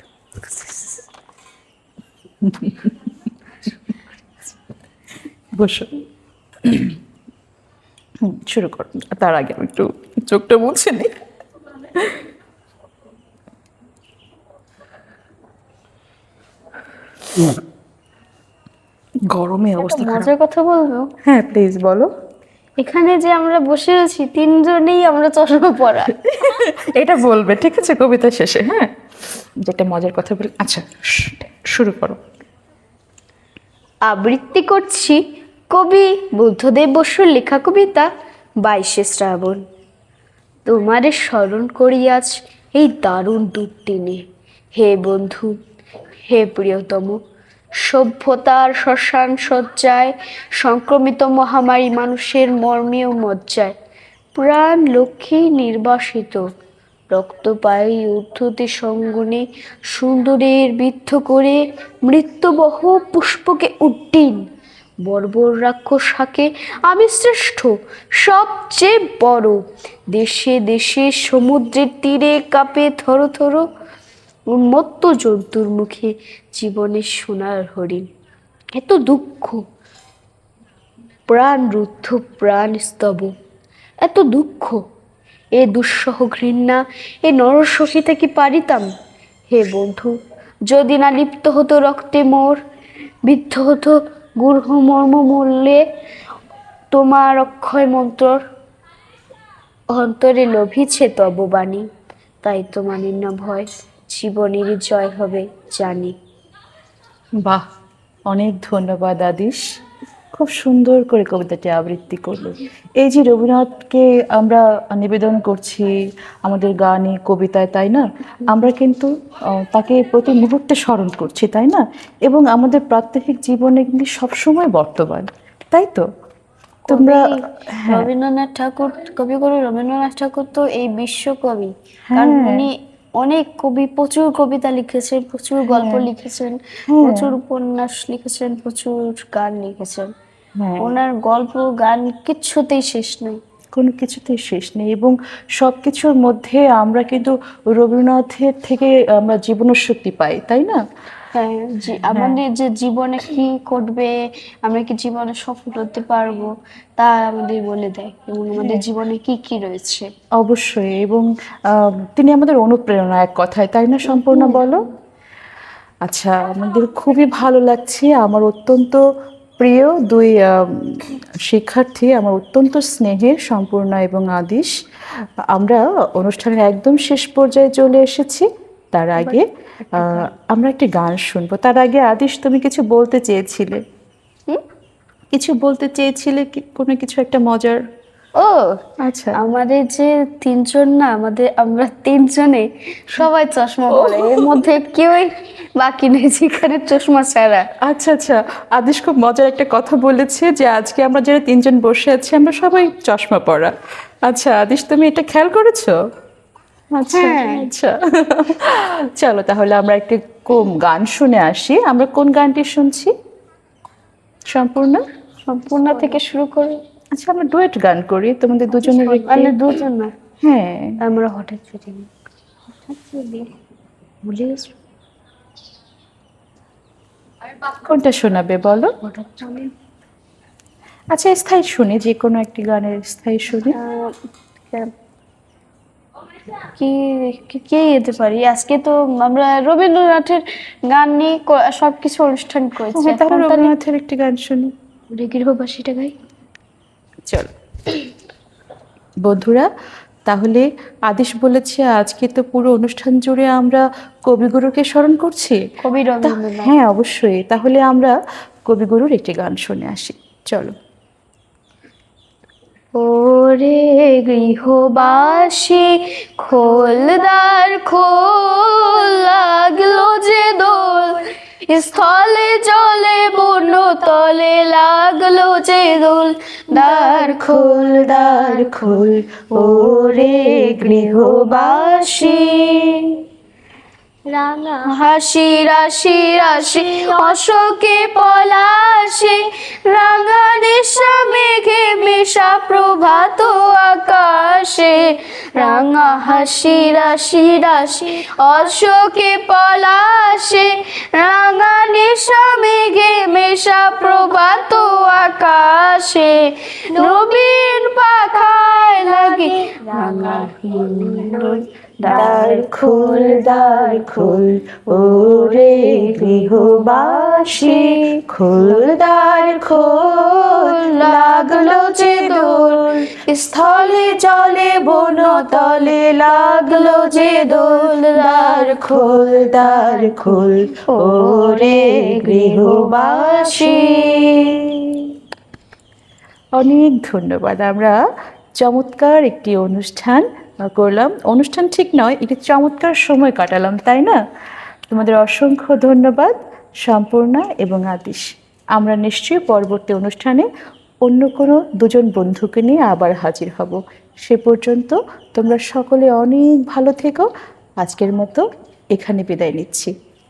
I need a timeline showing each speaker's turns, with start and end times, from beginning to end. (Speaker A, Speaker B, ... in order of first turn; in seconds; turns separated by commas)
Speaker A: 2.4-2.9, Speaker A: 5.6-5.9, Speaker A: 6.6-7.0, Speaker A: 8.2-11.1, Speaker A: 19.3-20.3, Speaker B: 19.8-21.1, Speaker A: 21.2-22.1, Speaker B: 22.8-26.2, Speaker A: 26.2-28.9, Speaker A: 29.6-32.2, Speaker B: 34.1-35.2, Speaker B: 35.7-38.1, Speaker B: 38.6-39.6, Speaker B: 40.6-44.2, Speaker B: 44.8-45.5, Speaker B: 46.2-47.2, Speaker B: 47.8-53.7, Speaker B: 54.4-56.4, Speaker B: 57.1-64.4, Speaker B: 65.0-69.6, Speaker B: 70.1-73.7, Speaker B: 74.5-78.0, Speaker B: 78.7-79.6, Speaker B: 81.3-83.3, Speaker B: 84.0-84.8, Speaker B: 85.5-88.9, Speaker B: 89.5-90.1, Speaker B: 90.7-92.6, Speaker B: 93.2-95.8, Speaker B: 96.9-98.4, Speaker B: 99.9-101.8, Speaker B: 102.4-106.1, Speaker A: 108.3-109.6, Speaker A: 110.3-115.9, Speaker A: 116.5-119.1, Speaker A: 119.6-126.0, Speaker B: 126.9-140.1, Speaker A: 126.9-127.3, Speaker A: 127.8-128.1, Speaker A: 132.1-132.7, Speaker A: 135.7-136.1, Speaker A: 136.9-137.3, Speaker A: 140.6-140.9, Speaker B: 140.8-143.3, Speaker A: 143.8-150.8, Speaker B: 151.3-160.1, Speaker A: 152.0-152.4, Speaker A: 158.6-158.8, Speaker A: 160.4-164.8, Speaker B: 164.1-164.6, Speaker A: 166.0-169.0, Speaker A: 169.6-174.7, Speaker A: 175.5-179.4, Speaker B: 179.9-180.3, Speaker A: 180.0-183.8, Speaker A: 185.3-187.8, Speaker B: 188.4-188.7, Speaker A: 189.0-189.4, Speaker B: 189.3-197.7, Speaker A: 193.9-194.7, Speaker A: 197.8-203.7, Speaker A: 204.2-205.9, Speaker A: 206.9-213.1, Speaker B: 207.1-207.7, Speaker A: 214.5-215.0, Speaker B: 215.4-216.8, Speaker C: 215.9-216.2, Speaker A: 217.1-219.6, Speaker C: 218.8-219.2, Speaker B: 219.2-220.1, Speaker A: 220.4-220.9, Speaker B: 221.0-222.1, Speaker C: 222.8-223.5, Speaker B: 224.2-224.7, Speaker A: 227.7-228.9, Speaker B: 229.0-229.7, Speaker A: 231.1-233.8, Speaker B: 233.7-234.1, Speaker B: 236.7-243.7, Speaker A: 242.9-244.7, Speaker B: 245.1-246.1, Speaker A: 249.2-249.7, Speaker A: 250.3-255.6, Speaker B: 255.8-256.7, Speaker A: 256.2-258.1, Speaker A: 258.7-260.7, Speaker B: 262.9-283.1, Speaker A: 277.5-279.1, Speaker A: 279.8-281.3, Speaker C: 284.3-285.0, Speaker B: 284.9-314.4, Speaker C: 286.4-287.4, Speaker C: 306.9-307.6, Speaker C: 308.8-311.6, Speaker A: 312.1-323.0, Speaker B: 314.9-319.0, Speaker B: 320.3-334.6, Speaker A: 323.8-334.6, Speaker A: 336.5-338.0, Speaker A: 338.6-344.2, Speaker A: 344.9-350.5, Speaker A: 351.1-357.3, Speaker A: 357.8-359.9